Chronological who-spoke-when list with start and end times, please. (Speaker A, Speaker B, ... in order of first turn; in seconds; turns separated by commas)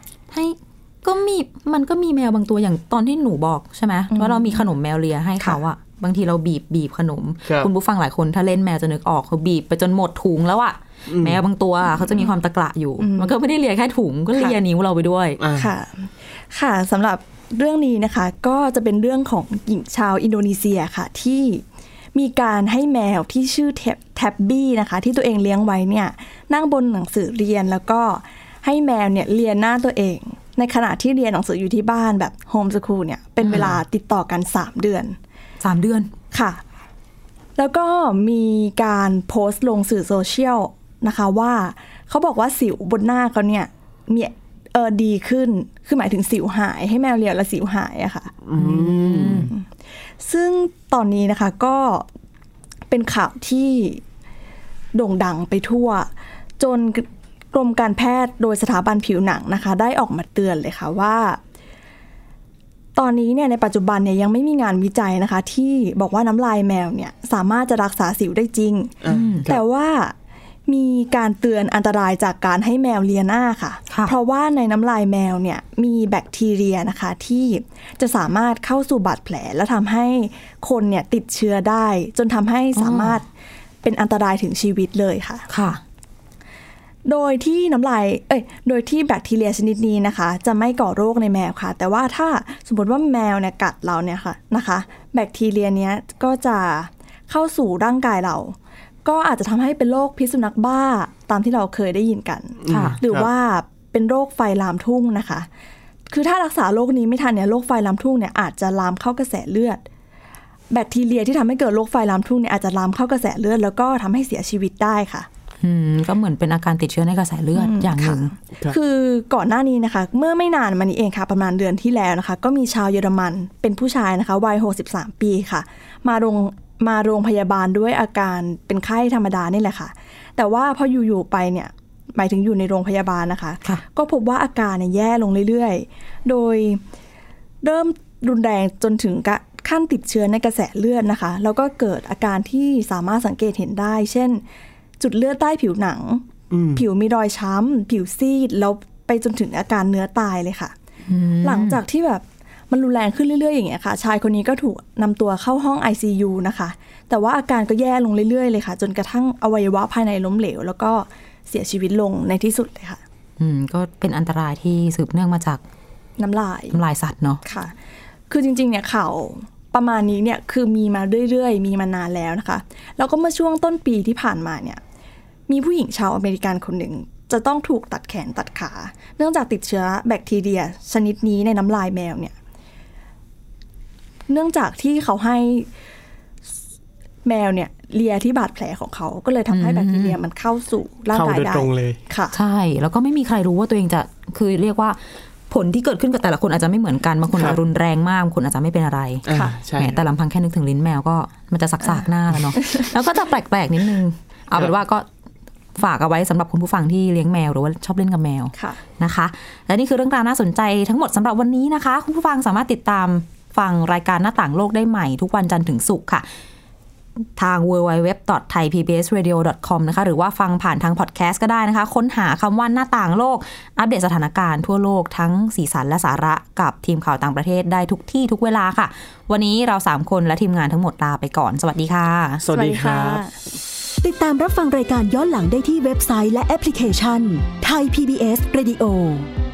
Speaker A: 0.3-15.4, Speaker B: 4.1-4.6, Speaker C: 11.1-11.4, Speaker B: 12.0-12.3, Speaker B: 13.0-13.3, Speaker C: 15.4-15.7, Speaker B: 15.6-35.2, Speaker A: 33.4-33.8, Speaker A: 35.6-36.1, Speaker B: 36.3-36.6, Speaker B: 37.6-48.4, Speaker C: 48.5-49.5, Speaker A: 48.6-49.5, Speaker B: 49.3-49.6, Speaker B: 50.2-52.1, Speaker B: 52.9-54.0, Speaker B: 55.0-61.4, Speaker B: 63.0-70.2, Speaker C: 69.0-69.6, Speaker A: 69.1-69.5, Speaker B: 70.7-83.3, Speaker A: 82.8-83.2, Speaker B: 83.8-85.5, Speaker A: 85.5-85.8, Speaker B: 87.0-105.5, Speaker C: 102.7-103.3, Speaker A: 102.7-103.0, Speaker B: 106.1-109.8, Speaker B: 110.7-115.3, Speaker A: 115.6-118.3, Speaker B: 117.5-136.8, Speaker B: 137.6-144.4, Speaker B: 145.0-146.2, Speaker C: 146.5-146.8, Speaker B: 146.8-150.8, Speaker A: 151.1-151.8, Speaker B: 151.4-163.0, Speaker A: 163.4-165.6, Speaker B: 166.2-166.8, Speaker A: 166.7-167.4, Speaker B: 167.4-167.8, Speaker B: 168.3-174.8, Speaker B: 175.5-182.3, Speaker B: 184.3-185.7, Speaker B: 187.2-192.3, Speaker A: 189.5-190.2, Speaker C: 191.1-192.0, Speaker A: 192.3-195.0, Speaker A: 195.5-205.1, Speaker C: 199.3-200.0, Speaker B: 199.3-199.6, Speaker A: 205.8-216.3, Speaker B: 208.6-208.8, Speaker A: 217.4-232.4, Speaker C: 232.4-233.2, Speaker B: 232.5-233.3, Speaker D: 234.0-239.3